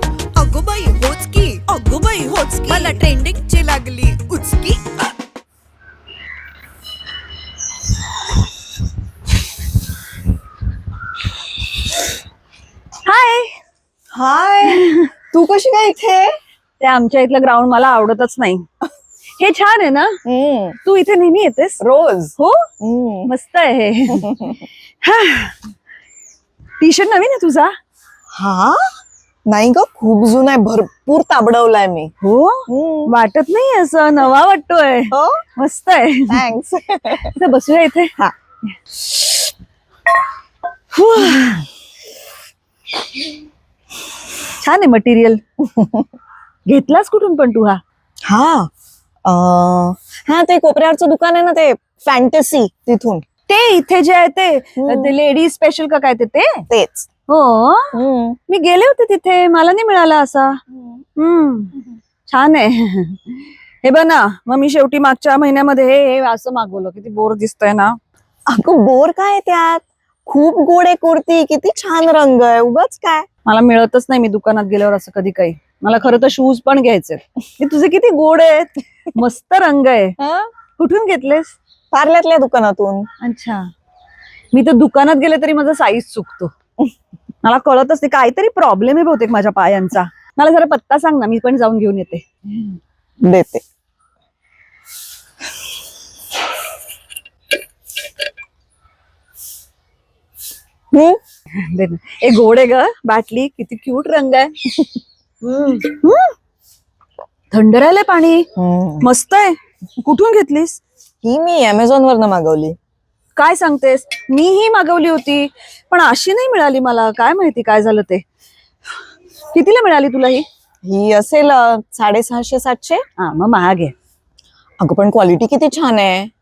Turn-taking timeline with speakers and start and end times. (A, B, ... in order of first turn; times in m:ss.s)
0:00.3-0:01.6 A
0:01.7-0:03.0 B
0:02.6-0:04.8 A
0:13.0-0:13.6 B
0:14.1-0:16.3 C
0:14.6-0:15.1 B
0:16.8-0:18.6 B
0:19.4-0:20.2 B
0:20.2-0:20.8 C
0:20.8-0:21.8 B
0:21.8-0:23.3 C
0:22.4-0:22.7 B
0:23.3-0:25.5 B
0:24.2-0:24.6 C
0:26.8-0:27.7 B
0:28.4-0:28.9 C
0:29.5-0:32.1 C
0:32.2-0:36.4 B
0:32.7-0:33.1 C
0:35.1-0:35.4 C
0:36.3-0:37.3 C
0:37.2-0:38.1 B
0:40.9-0:41.6 B
0:44.6-0:45.4 B
0:45.7-0:46.0 C
0:46.7-0:47.8 B
0:48.3-0:48.7 C
0:49.2-0:53.2 C
0:53.5-0:56.6 B
0:54.8-0:55.1 C
0:56.7-0:57.1 C
0:57.3-0:58.0 B
0:57.9-0:58.4 C
0:58.5-1:00.6 B
1:01.2-1:01.7 B
1:02.3-1:08.0 B
1:08.5-1:13.2 C
1:13.4-1:20.1 B
1:20.2-1:20.5 C
1:20.8-1:21.6 B
1:21.9-1:23.1 C
1:23.2-1:23.7 B
1:24.5-1:26.5 B
1:27.4-1:32.2 B
1:33.2-1:33.6 C
1:40.9-1:41.2 C
1:41.5-1:44.6 B
1:45.4-1:46.3 B
1:47.5-1:48.5 B
1:48.6-1:49.1 C
1:49.0-1:50.8 B
1:51.2-1:52.8 C
1:53.4-1:58.2 B
1:59.5-2:00.4 B
2:00.8-2:03.0 C
2:03.2-2:03.9 B
2:04.8-2:06.3 C